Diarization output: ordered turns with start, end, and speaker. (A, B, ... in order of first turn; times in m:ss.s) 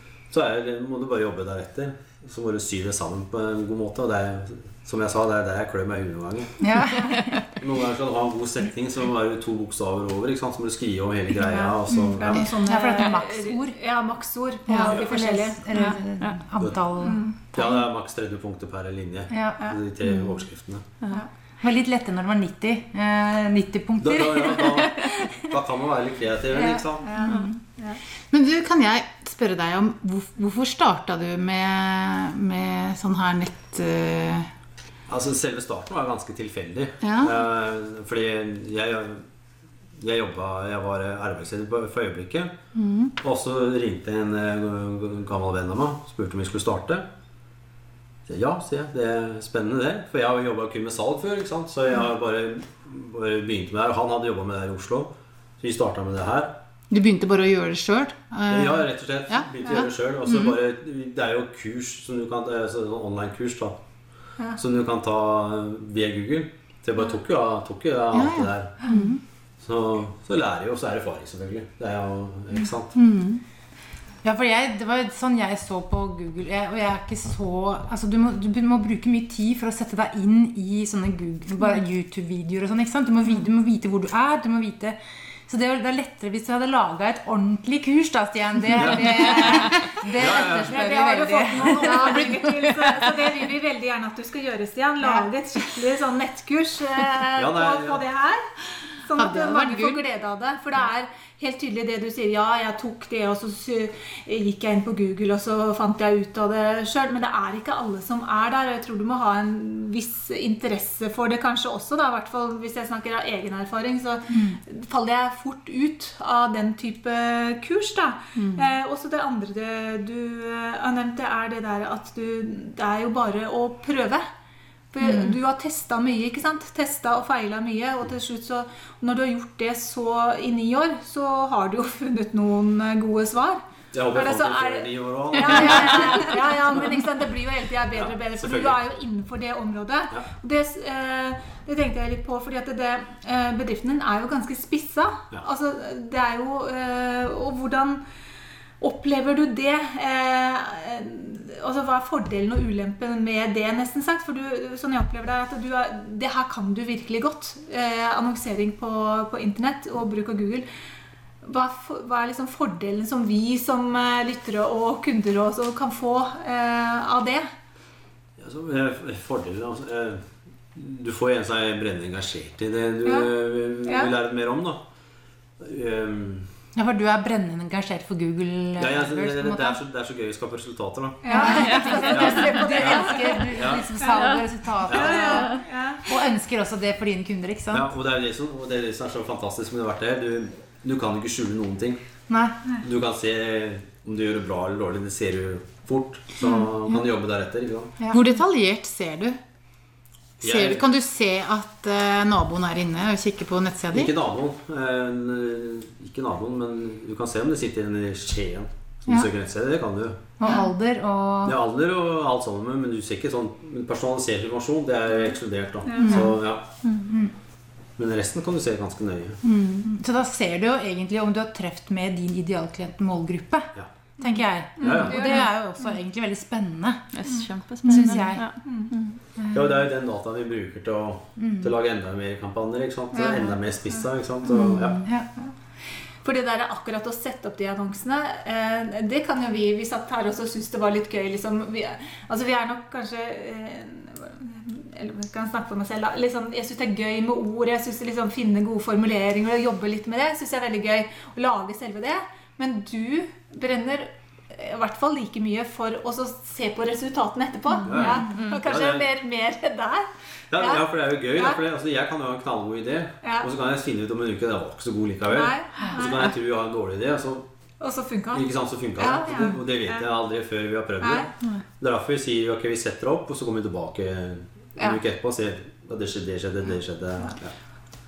0:00.3-0:06.7 A
0:06.6-0:07.2 B
0:07.6-0:12.5 A
0:11.4-0:15.8 C
0:12.3-0:13.0 D
0:12.6-0:13.8 B
0:14.7-0:17.8 B
0:15.8-0:16.4 E
0:17.0-0:17.4 C
0:17.4-0:20.9 A
0:19.3-0:19.6 B
0:21.6-0:25.4 B
0:24.0-0:27.1 A
0:26.5-0:27.5 B
0:27.0-0:28.0 C
0:28.3-0:34.5 D
0:35.1-0:39.2 A
0:37.0-0:37.3 D
0:40.0-0:42.5 A
0:42.8-0:43.1 D
0:43.2-0:47.1 A
0:48.3-0:56.5 A
0:56.9-1:00.5 D
0:58.5-1:03.8 A
1:04.6-1:08.8 A
1:08.1-1:09.2 D
1:08.9-1:09.2 B
1:09.6-1:13.0 A
1:13.0-1:13.4 D
1:14.2-1:32.5 B
1:28.8-1:29.4 A
1:29.4-1:29.7 E
1:30.0-1:30.8 A
1:30.7-2:04.3 C
1:32.1-1:32.3 D
1:37.4-1:38.0 A
1:39.2-1:40.0 D
1:58.4-1:58.7 D
2:04.9-2:28.0 C
2:13.9-2:16.4 A
2:18.0-2:18.8 A
2:28.8-2:40.7 C
2:41.4-2:47.5 C
2:48.4-2:54.8 A
2:53.0-2:53.3 C
2:53.8-2:54.1 C
2:55.6-2:56.5 A
2:56.8-2:59.8 B
2:58.8-3:03.9 A
3:01.2-3:06.0 C
3:01.3-3:07.9 B
3:01.5-3:02.1 E
3:04.9-3:05.4 A
3:05.3-3:05.6 E
3:07.7-3:12.0 A
3:12.3-3:12.6 B
3:12.8-3:18.0 A
3:18.0-3:18.3 B
3:18.1-3:19.4 D
3:20.4-3:20.8 A
3:20.4-3:24.1 D
3:23.9-3:30.2 A
3:30.4-3:31.6 B
3:31.4-3:36.7 A
3:35.8-3:36.2 C
3:36.0-3:36.3 D
3:36.9-3:37.3 B
3:38.0-3:39.4 A
3:39.4-3:39.9 D
3:39.8-3:47.1 B
3:44.2-3:45.5 C
3:44.8-3:45.4 A
3:47.1-3:49.2 E
3:47.3-3:48.9 C
3:47.8-3:48.5 B
3:49.4-3:49.7 B
3:49.5-3:55.0 A
3:51.4-3:51.7 B
3:53.1-3:54.0 C
3:54.5-3:55.3 B
3:54.6-3:54.8 D
3:56.2-4:21.6 C
4:17.8-4:19.1 A
4:18.2-4:18.6 E
4:20.5-4:27.5 A
4:23.2-4:23.5 C
4:25.3-4:26.3 C
4:27.8-4:30.1 C
4:28.3-4:37.5 A
4:31.0-4:31.3 C